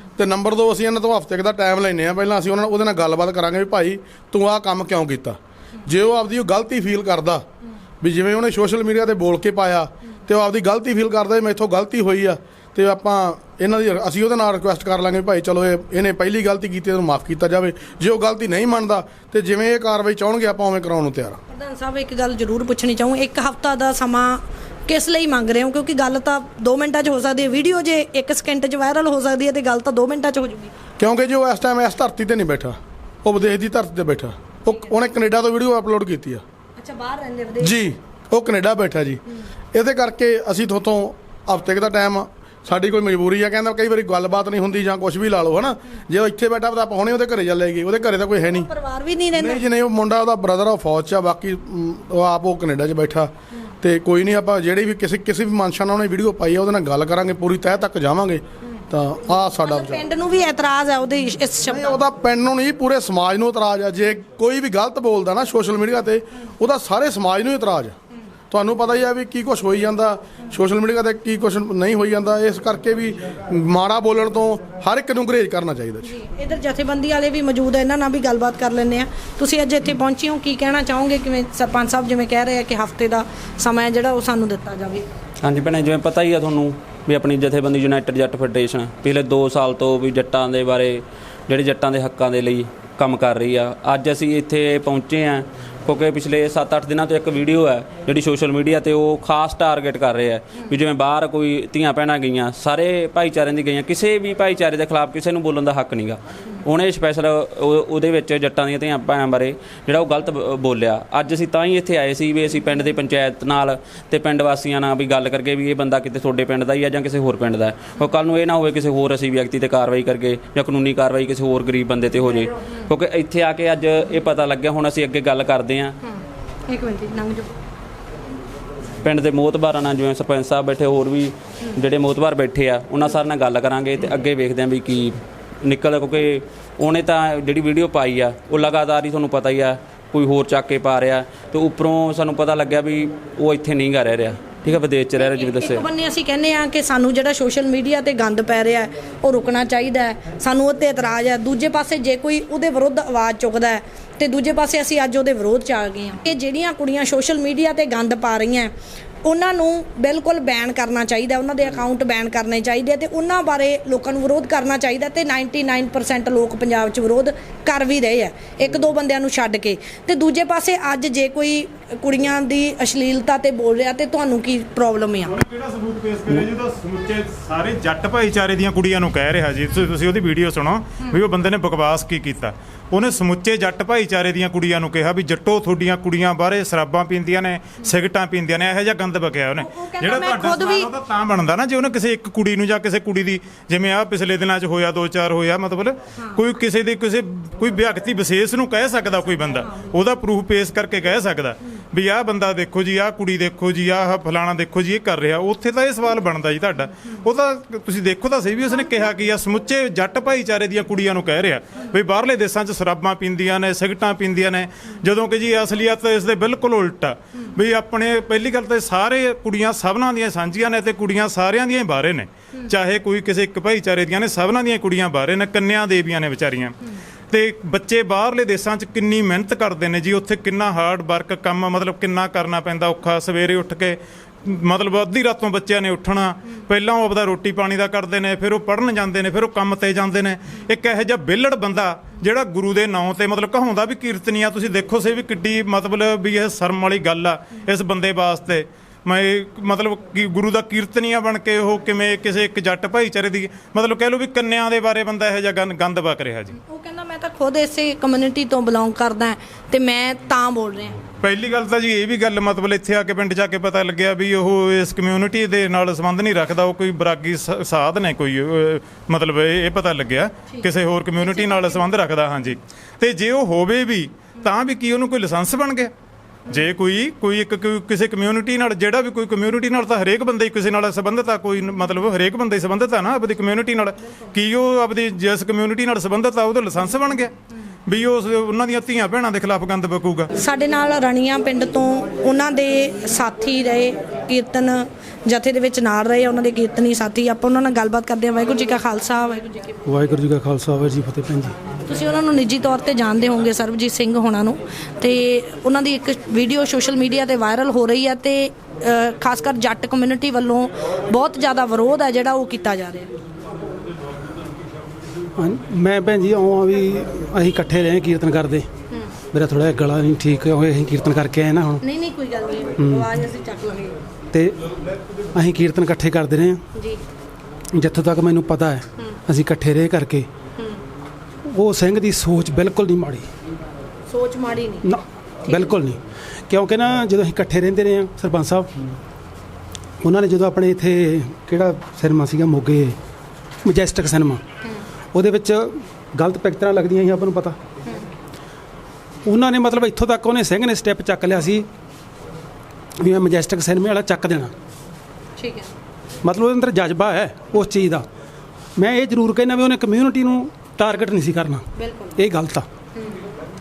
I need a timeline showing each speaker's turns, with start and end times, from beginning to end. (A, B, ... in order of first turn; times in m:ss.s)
0:00.2-0:07.4 A
0:08.0-0:21.4 A
0:21.5-0:30.7 B
0:31.0-0:36.4 A
0:34.6-0:35.0 B
0:36.8-0:37.8 B
0:37.6-0:39.2 A
0:39.7-0:48.7 A
0:48.5-0:49.6 B
0:49.3-0:53.3 A
0:53.8-1:00.1 A
0:59.5-1:01.9 B
1:01.7-1:08.0 A
1:08.5-1:16.1 A
1:16.0-1:25.0 B
1:25.4-2:06.0 C
2:06.1-2:07.5 B
2:09.0-2:25.9 C
2:25.2-2:38.7 B
2:39.2-2:55.4 B
2:55.3-3:46.8 D
3:09.6-3:10.9 B
3:47.3-4:16.5 D
4:16.7-4:21.0 B
4:21.2-4:35.9 D
4:31.2-4:31.8 B
4:36.5-4:47.3 D
4:47.9-4:50.3 D
4:50.4-4:59.8 B
4:59.9-5:01.5 E
5:01.9-5:13.1 B
5:15.4-5:18.7 E
5:19.3-5:21.8 E
5:21.8-5:24.0 B
5:22.8-5:23.1 E
5:24.3-5:24.6 E
5:25.4-5:26.6 E
5:26.7-5:27.0 B
5:27.8-5:30.3 E
5:31.5-5:33.3 E
5:34.1-5:34.9 B
5:34.8-5:38.7 E
5:35.5-5:35.7 B
5:40.0-5:43.0 E
5:43.6-5:44.4 E
5:45.1-5:47.6 E
5:49.2-5:51.7 E
5:53.0-5:54.5 E
5:55.4-5:55.7 B
5:56.2-5:58.0 E
5:58.8-6:02.6 E
6:01.8-6:02.1 B